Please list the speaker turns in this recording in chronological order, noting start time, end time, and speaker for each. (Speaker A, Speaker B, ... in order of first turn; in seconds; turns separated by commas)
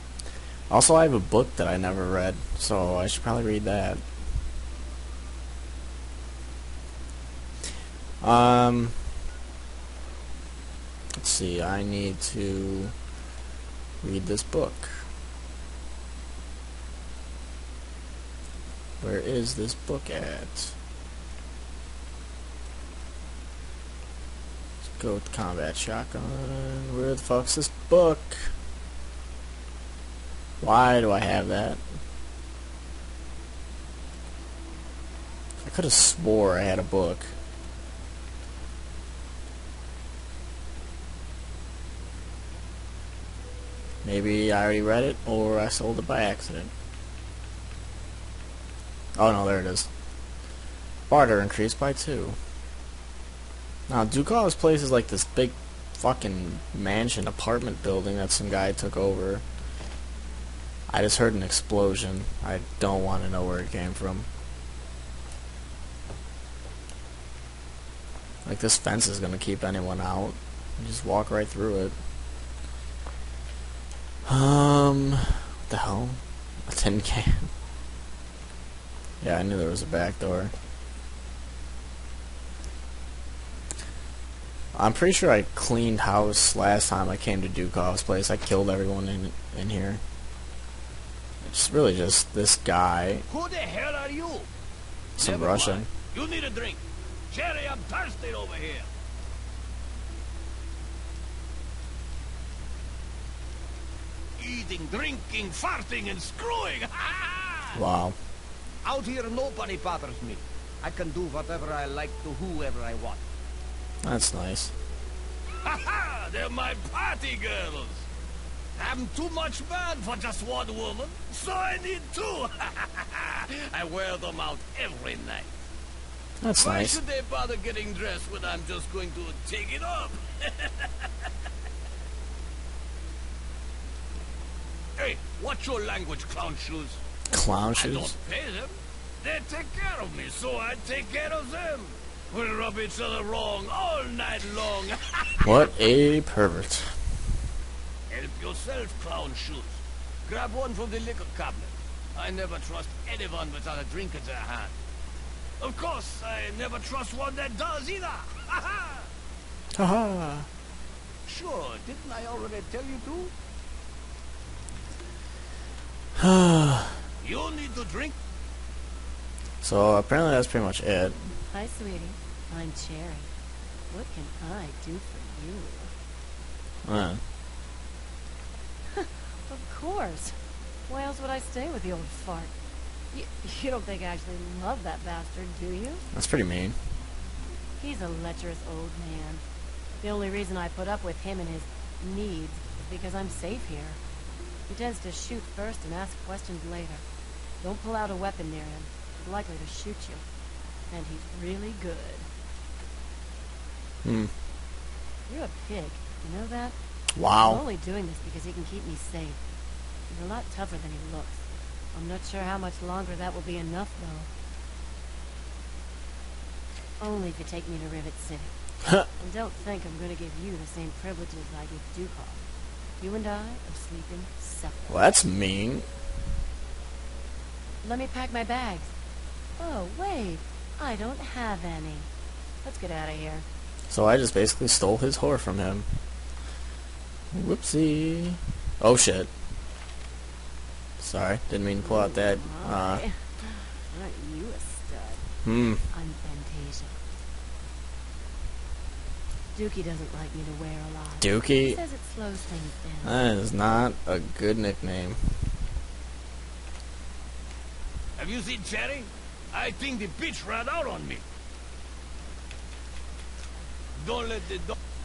Speaker A: 0.7-4.0, Speaker A: 8.2-8.9, Speaker A: 11.2-12.9, Speaker A: 14.0-15.1, Speaker A: 19.0-20.7, Speaker A: 24.9-28.5, Speaker A: 30.6-31.8, Speaker A: 35.6-37.3, Speaker A: 44.0-46.7, Speaker A: 49.2-49.9, Speaker A: 51.1-52.4, Speaker A: 53.9-59.4, Speaker A: 60.9-64.3, Speaker A: 68.4-72.0, Speaker A: 74.2-77.5, Speaker A: 79.2-80.5, Speaker A: 84.7-90.0, Speaker A: 91.4-93.2, Speaker B: 93.3-94.5, Speaker B: 95.2-98.9, Speaker A: 95.2-95.9, Speaker B: 104.4-107.8, Speaker A: 107.7-108.2, Speaker B: 108.8-113.2, Speaker A: 114.0-114.7, Speaker B: 115.6-118.0, Speaker B: 118.8-125.5, Speaker A: 126.4-127.0, Speaker B: 126.6-131.3, Speaker B: 135.0-137.0, Speaker A: 137.3-138.1, Speaker B: 137.8-145.6, Speaker A: 145.4-147.0, Speaker B: 148.1-154.7, Speaker B: 155.6-159.1, Speaker A: 159.7-160.5, Speaker B: 161.2-163.3, Speaker A: 166.2-167.0, Speaker B: 167.2-168.1, Speaker A: 169.6-171.3, Speaker C: 171.5-173.3, Speaker C: 173.9-175.9, Speaker A: 176.8-177.2, Speaker C: 178.9-182.5, Speaker C: 183.1-186.0, Speaker A: 186.1-186.8, Speaker C: 187.8-189.4, Speaker C: 190.0-194.0, Speaker C: 194.7-197.0, Speaker C: 197.6-200.2, Speaker C: 200.9-202.3, Speaker A: 204.0-204.3, Speaker C: 205.3-206.8, Speaker A: 207.2-207.6, Speaker C: 207.3-209.4, Speaker C: 210.1-214.3, Speaker C: 217.0-218.5, Speaker C: 219.1-222.4, Speaker C: 223.0-225.2, Speaker A: 224.9-225.9, Speaker C: 227.8-228.9, Speaker C: 229.6-232.1, Speaker C: 232.6-233.5, Speaker A: 233.9-235.9, Speaker A: 237.3-239.3, Speaker A: 241.0-243.0, Speaker C: 241.8-245.2, Speaker A: 245.4-245.8, Speaker C: 245.9-247.0, Speaker C: 249.5-253.2, Speaker A: 251.2-251.8, Speaker A: 253.0-255.2, Speaker B: 258.2-261.2, Speaker B: 264.0-264.8